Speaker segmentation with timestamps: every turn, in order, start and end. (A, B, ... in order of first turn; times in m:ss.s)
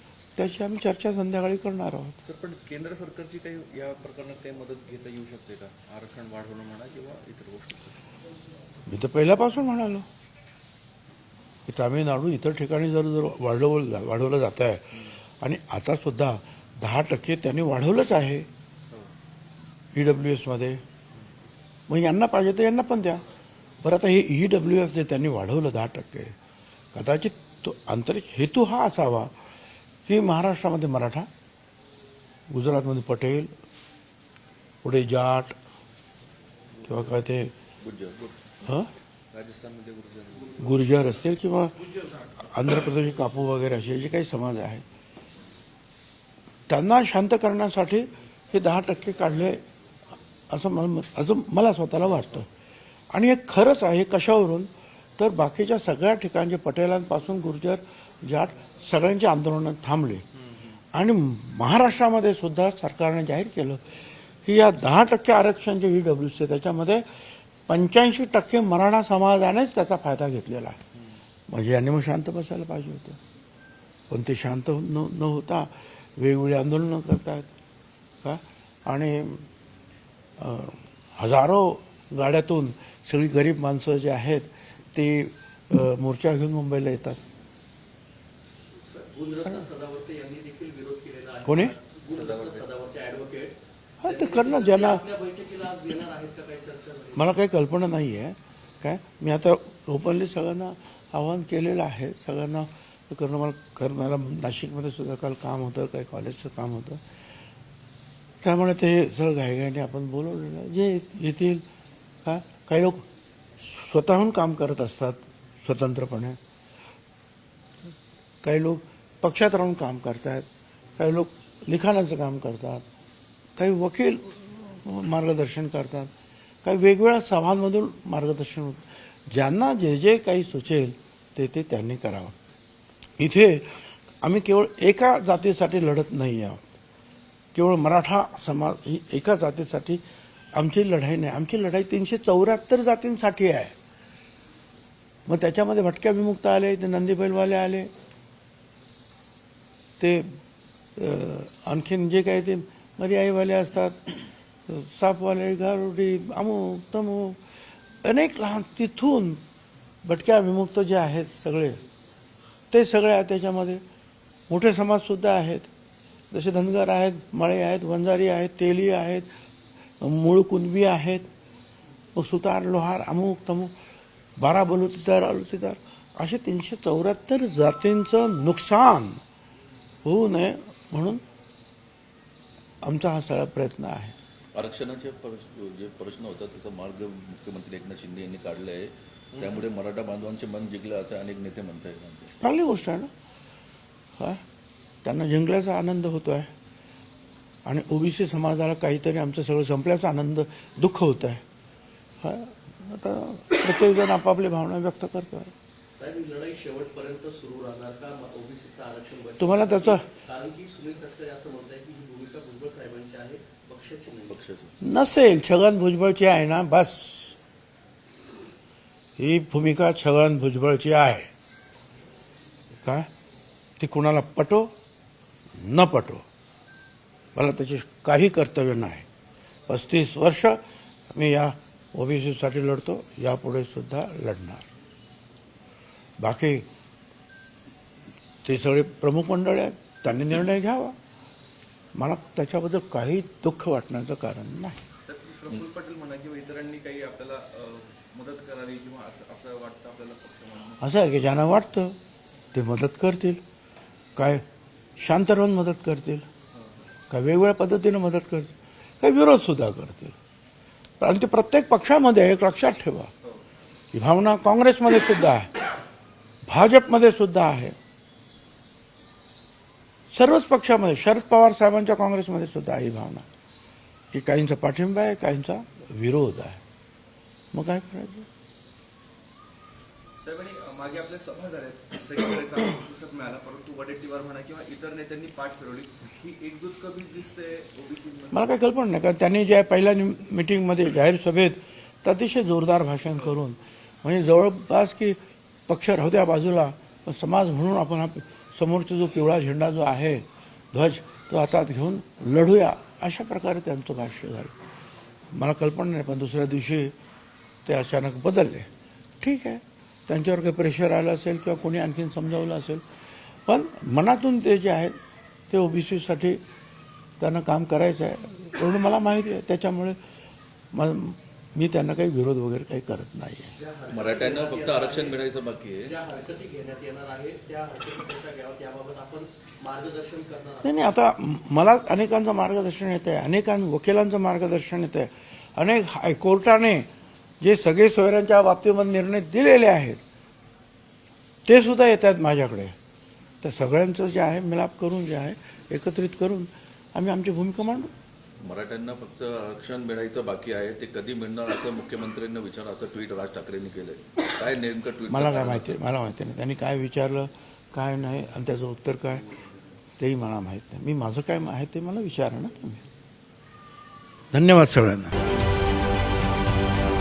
0:00.4-0:02.2 A
0:02.2-0:08.0 B
0:08.9-0:10.1 A
0:11.6-0:18.5 A
0:19.9-0:20.8 A
0:21.9-0:23.2 A
0:23.8-0:26.3 A
0:26.9-0:29.3 A
0:30.0-0:31.3 A
0:32.5-0:33.5 A
0:34.8-0:35.6 A
0:36.8-0:37.5 A
0:37.8-0:38.4 C
0:38.6-0:38.9 A
0:39.3-0:40.6 B
0:40.6-0:44.8 A
0:46.7-0:49.6 A
0:50.5-0:52.5 A
0:53.1-1:00.2 A
1:00.9-1:10.8 A
1:11.5-1:13.2 A
1:14.1-1:17.5 A
1:18.2-1:19.5 A
1:20.4-1:27.2 A
1:28.8-1:37.4 D
1:31.4-1:31.8 A
1:32.1-1:32.6 C
1:34.0-1:35.0 A
1:37.1-1:47.0 A
1:48.4-1:51.6 A
1:52.2-1:53.1 A
1:53.6-1:56.4 A
1:58.4-2:00.4 A
2:01.0-2:02.8 A
2:03.6-2:06.1 A
2:06.6-2:12.4 A
2:13.2-2:16.6 A
2:17.5-2:20.0 A
2:20.6-2:23.7 A
2:25.3-2:27.9 A
2:30.0-2:30.4 A
2:31.0-2:37.4 A
2:38.0-2:39.4 A
2:40.0-2:41.8 A
2:42.7-2:43.8 A
2:44.5-2:45.7 A
2:46.3-2:49.3 A
2:50.0-2:51.3 A
2:52.2-2:53.7 A
2:54.4-2:59.2 A
3:00.0-3:01.2 A
3:02.8-3:04.2 A
3:04.5-3:12.4 C
3:12.4-3:13.1 A
3:15.0-3:16.5 A
3:17.7-3:21.4 A
3:22.2-3:25.5 A
3:25.9-3:34.4 D
3:29.4-3:30.0 A
3:34.3-3:34.7 C
3:34.8-3:37.3 A
3:39.2-3:41.3 A
3:42.8-3:43.1 A
3:43.8-3:44.7 A
3:45.6-3:46.2 A
3:47.3-3:49.1 A
3:49.7-3:50.6 A
3:51.1-3:54.7 A
3:56.2-3:56.7 A
3:58.4-4:01.0 A
4:02.0-4:04.8 A
4:05.1-4:10.8 B
4:10.8-4:12.0 A
4:12.5-4:13.4 A
4:14.2-4:14.4 A
4:15.0-4:16.3 A
4:16.6-4:16.8 B
4:17.1-4:20.2 A
4:21.0-4:23.1 A
4:23.9-4:25.6 A
4:26.4-4:27.7 A
4:30.1-4:33.3 A
4:34.1-4:36.6 A
4:37.5-4:38.3 A
4:40.2-4:48.5 B
4:48.3-5:04.6 A
5:05.3-5:06.9 A
5:07.7-5:08.7 A
5:09.2-5:12.8 A
5:13.4-5:14.9 A
5:15.5-5:16.4 A
5:17.2-5:20.0 A
5:20.7-5:23.5 A
5:23.6-5:25.2 D
5:23.9-5:25.9 C
5:25.8-5:30.8 D
5:30.6-5:36.9 A
5:37.4-5:40.0 A
5:41.4-5:42.8 A
5:43.4-5:47.9 A
5:48.4-5:55.8 C
5:55.1-5:59.3 A
6:00.0-6:02.8 A
6:04.3-6:05.2 A